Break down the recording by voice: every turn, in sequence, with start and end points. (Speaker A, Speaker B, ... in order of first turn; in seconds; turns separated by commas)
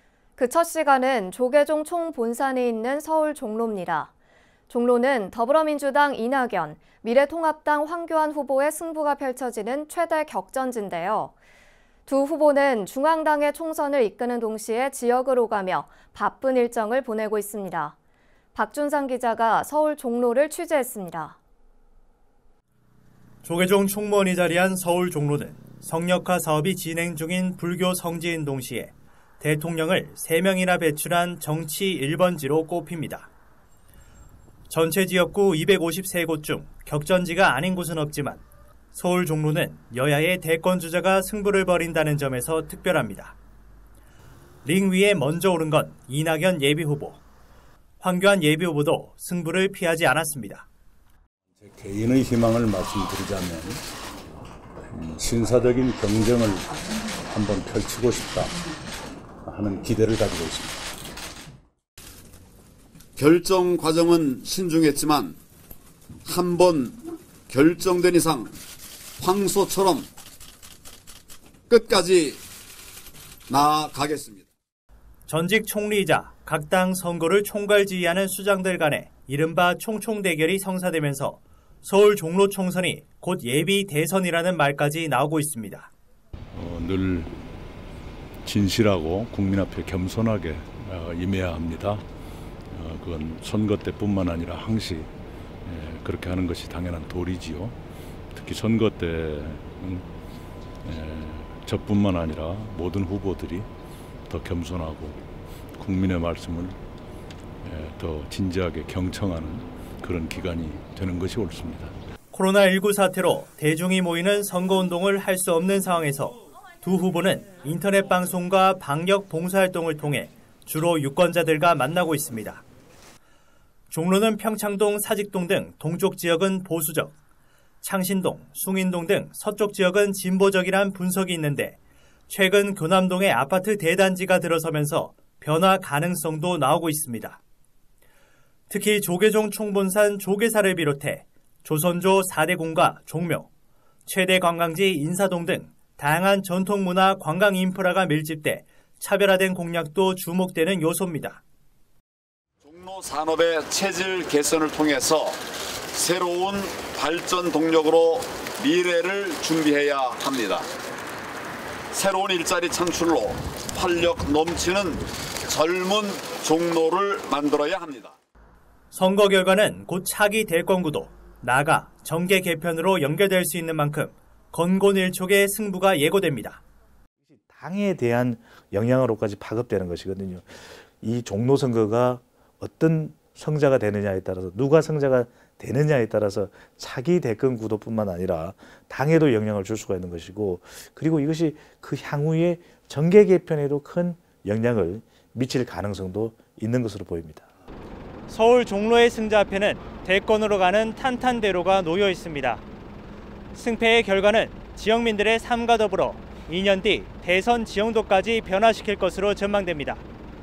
Speaker A: 0.4-4.1, Speaker A: 4.7-11.3, Speaker A: 12.1-17.9, Speaker A: 18.5-21.4, Speaker B: 23.4-33.3, Speaker B: 34.7-38.4, Speaker B: 38.9-43.4, Speaker B: 44.6-47.2, Speaker B: 48.0-50.7, Speaker C: 51.5-53.8, Speaker C: 54.9-56.7, Speaker C: 57.3-58.6, Speaker C: 59.4-60.8, Speaker D: 63.2-65.4, Speaker D: 66.2-68.5, Speaker D: 69.2-70.1, Speaker D: 71.7-72.4, Speaker D: 73.5-74.5, Speaker B: 75.3-85.9, Speaker C: 86.5-87.4, Speaker C: 88.4-92.0, Speaker C: 92.7-95.1, Speaker C: 95.7-97.8, Speaker C: 98.3-100.1, Speaker C: 100.8-103.7, Speaker C: 104.3-105.2, Speaker C: 105.8-106.8, Speaker C: 107.6-112.0, Speaker B: 112.3-122.6, Speaker B: 123.9-127.1, Speaker B: 127.8-131.8, Speaker B: 132.3-137.4, Speaker B: 138.7-143.5, Speaker B: 144.1-151.4, Speaker D: 152.6-155.4, Speaker D: 155.9-160.7, Speaker D: 161.9-168.2, Speaker B: 168.9-176.6, Speaker E: 177.3-197.5, Speaker B: 198.3-202.6, Speaker B: 203.5-210.0